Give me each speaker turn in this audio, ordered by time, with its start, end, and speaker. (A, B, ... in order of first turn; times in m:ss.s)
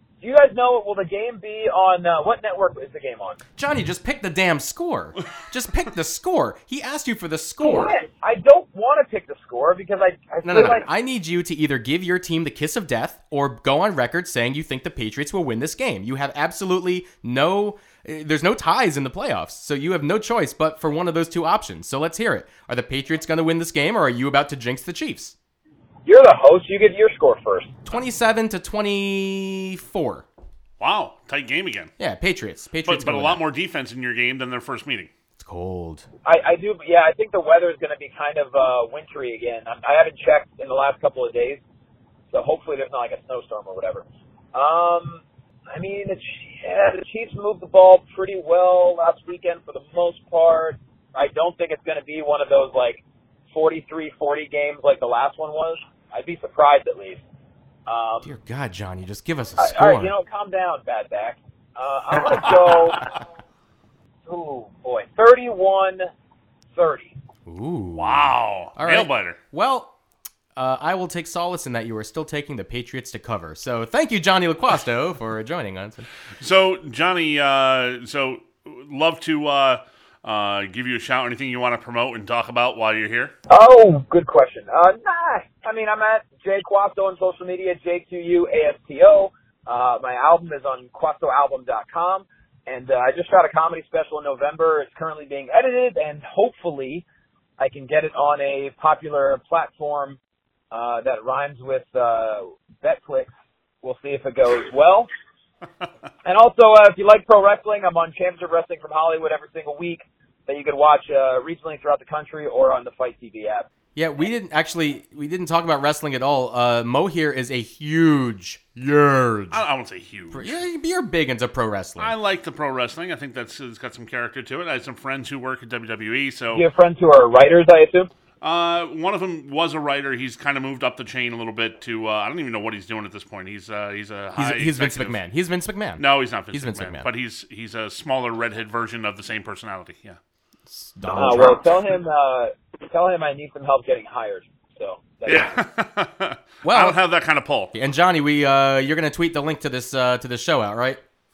0:00.2-0:03.4 A
0:03.6-0:07.9 B
0:07.6-0:10.9 A
0:10.4-0:25.4 B
0:26.1-0:27.7 A
0:27.9-0:30.2 B
0:30.8-0:31.9 C
0:32.0-0:33.4 B
0:32.8-0:35.1 C
0:35.4-0:36.1 B
0:36.2-0:41.6 A
0:42.3-0:57.2 A
0:57.9-0:58.3 A
0:58.2-1:00.1 B
0:59.6-1:03.0 A
1:04.3-1:06.1 A
1:06.8-1:07.1 A
1:07.4-1:10.0 B
1:08.0-1:09.4 C
1:10.5-1:16.1 B
1:16.4-1:23.3 C
1:23.5-1:37.0 A
1:37.6-1:40.2 A
1:40.7-1:43.3 A
1:43.8-1:45.1 A
1:46.2-1:53.7 A
1:54.0-1:59.6 B
1:59.5-2:00.6 C
2:00.3-2:02.1 B
2:02.0-2:06.6 C
2:06.5-2:08.1 A
2:08.4-2:15.2 C
2:14.4-2:17.1 B
2:16.0-2:20.2 C
2:20.7-2:21.7 B
2:21.1-2:25.6 A
2:25.2-2:27.7 C
2:26.6-2:27.0 B
2:27.7-2:31.0 B